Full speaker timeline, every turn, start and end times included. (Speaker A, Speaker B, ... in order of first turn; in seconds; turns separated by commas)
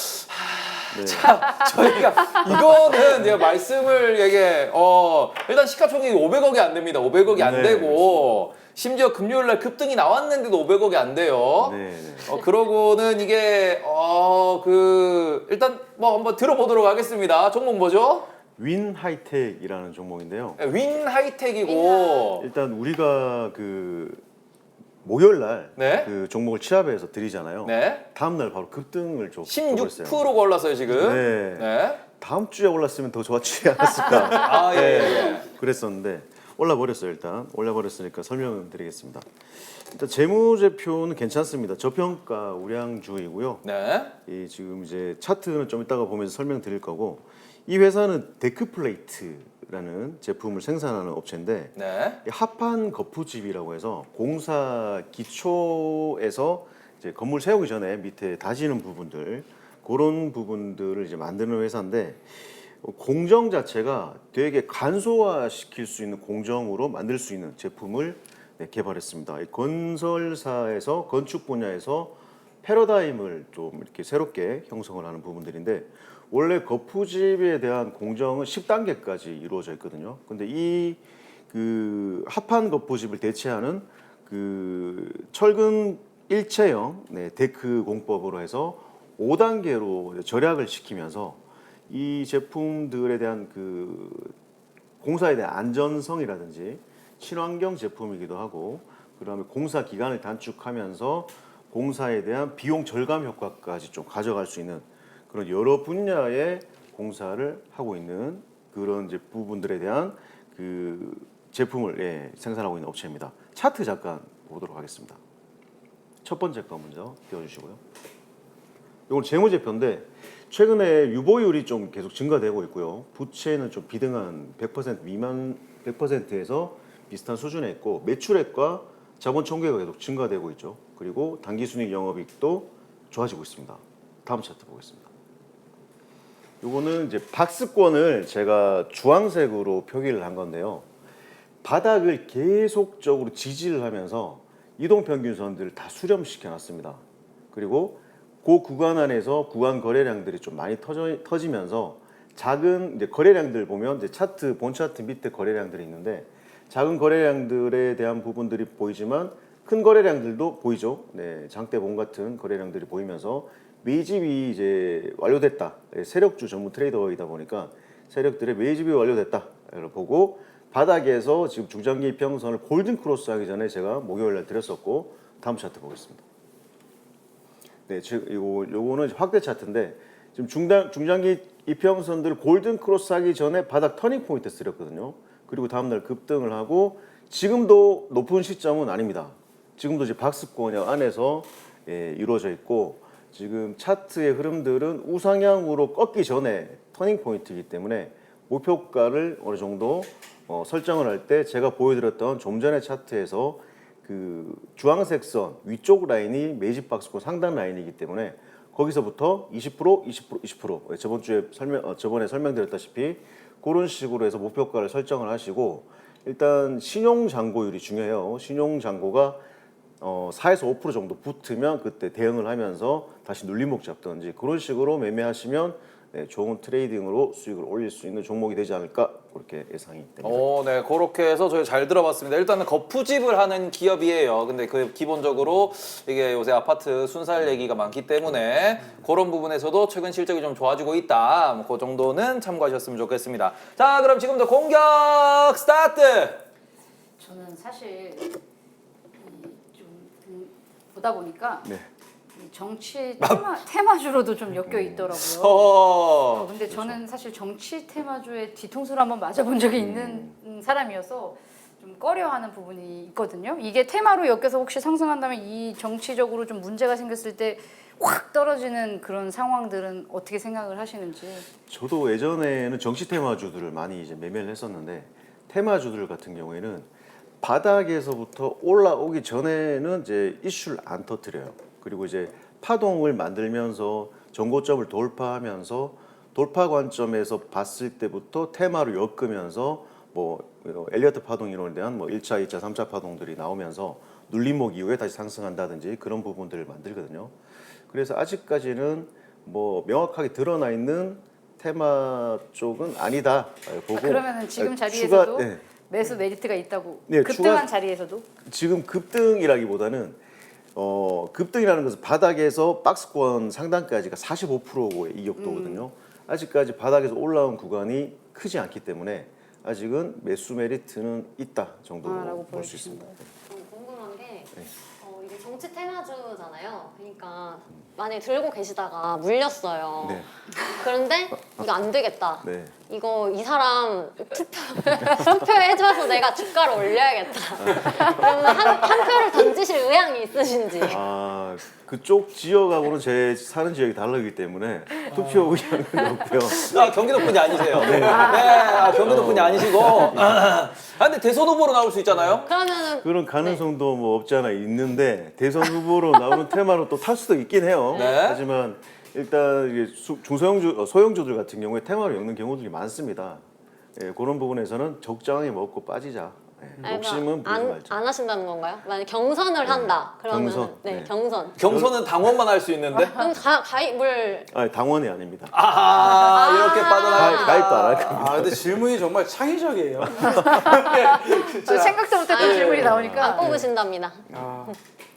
Speaker A: 0.3-18.3, Speaker B: 0.9-1.4, Speaker B: 7.3-8.3, Speaker B: 11.6-12.3, Speaker B: 18.6-20.6, Speaker A: 20.6-22.4, Speaker C: 21.6-22.3, Speaker B: 22.4-24.2, Speaker B: 25.0-30.3, Speaker A: 25.8-26.1, Speaker A: 27.6-28.0, Speaker A: 29.5-32.0, Speaker B: 30.9-43.6, Speaker A: 34.3-35.5, Speaker A: 43.6-44.1, Speaker B: 44.2-94.3, Speaker A: 51.8-52.2, Speaker B: 95.0-115.2, Speaker B: 116.2-117.8, Speaker B: 119.1-135.1, Speaker B: 136.6-140.8, Speaker B: 141.6-147.0, Speaker B: 147.5-176.2, Speaker B: 177.9-219.4, Speaker B: 220.0-230.4, Speaker A: 230.2-246.4, Speaker D: 247.2-248.4, Speaker D: 249.2-251.7, Speaker D: 252.3-271.5, Speaker B: 254.6-255.1, Speaker A: 255.2-256.5, Speaker B: 256.6-257.0, Speaker B: 259.8-260.4, Speaker B: 271.7-276.9, Speaker B: 277.4-297.3, Speaker B: 297.9-306.1, Speaker D: 303.9-308.2, Speaker B: 307.1-307.7, Speaker B: 308.4-310.2, Speaker B: 310.7-323.3, Speaker D: 315.4-315.9, Speaker D: 322.0-323.1, Speaker C: 323.5-341.0, Speaker B: 330.0-330.3, Speaker B: 331.4-331.6, Speaker B: 332.4-332.7, Speaker B: 337.6-338.5, Speaker B: 340.9-350.6, Speaker A: 346.5-352.5, Speaker C: 348.1-348.8, Speaker C: 352.4-353.6, Speaker B: 353.0-363.4, Speaker A: 357.9-358.4, Speaker C: 357.9-358.2, Speaker B: 363.9-368.0, Speaker C: 366.8-371.6, Speaker B: 369.6-372.2, Speaker A: 371.6-373.2, Speaker C: 373.1-374.5, Speaker B: 374.5-375.6, Speaker A: 375.5-378.1, Speaker C: 375.9-378.0, Speaker B: 377.1-378.7, Speaker E: 378.1-382.1, Speaker B: 380.0-380.7, Speaker D: 380.3-380.8, Speaker D: 381.6-383.6, Speaker C: 382.3-384.8, Speaker B: 382.7-383.7, Speaker B: 384.3-384.6, Speaker E: 384.3-384.7